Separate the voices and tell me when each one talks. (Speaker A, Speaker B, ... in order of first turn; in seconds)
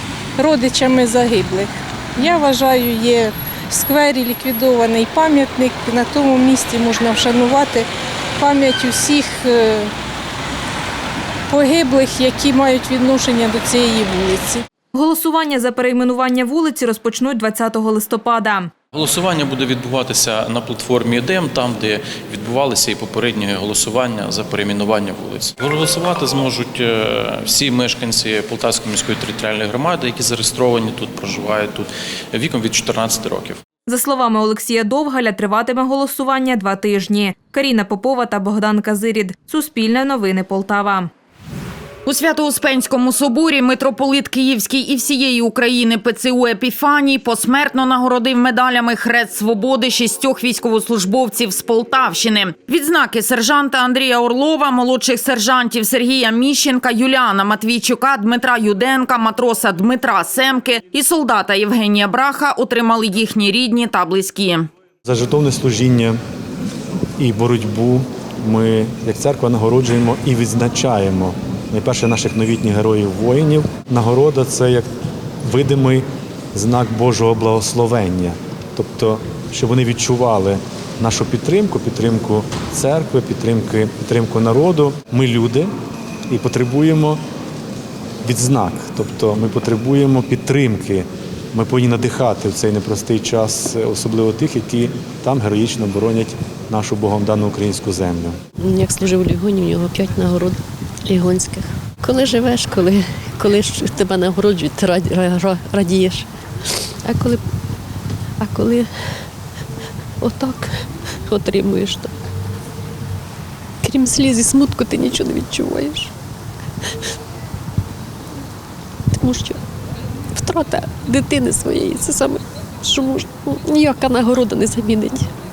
Speaker A: 0.4-9.9, 11.5-14.7
Speaker B: 14.9-18.7, 33.9-41.1
Speaker C: 18.9-33.6
Speaker D: 42.1-64.7
Speaker E: 65.1-66.2, 67.2-74.9, 75.4-85.7, 86.3-87.2, 88.2-98.4
Speaker F: 98.6-106.2, 107.0-107.4, 108.4-109.1, 110.2-112.1, 113.8-116.1, 119.1-119.6, 120.3-125.3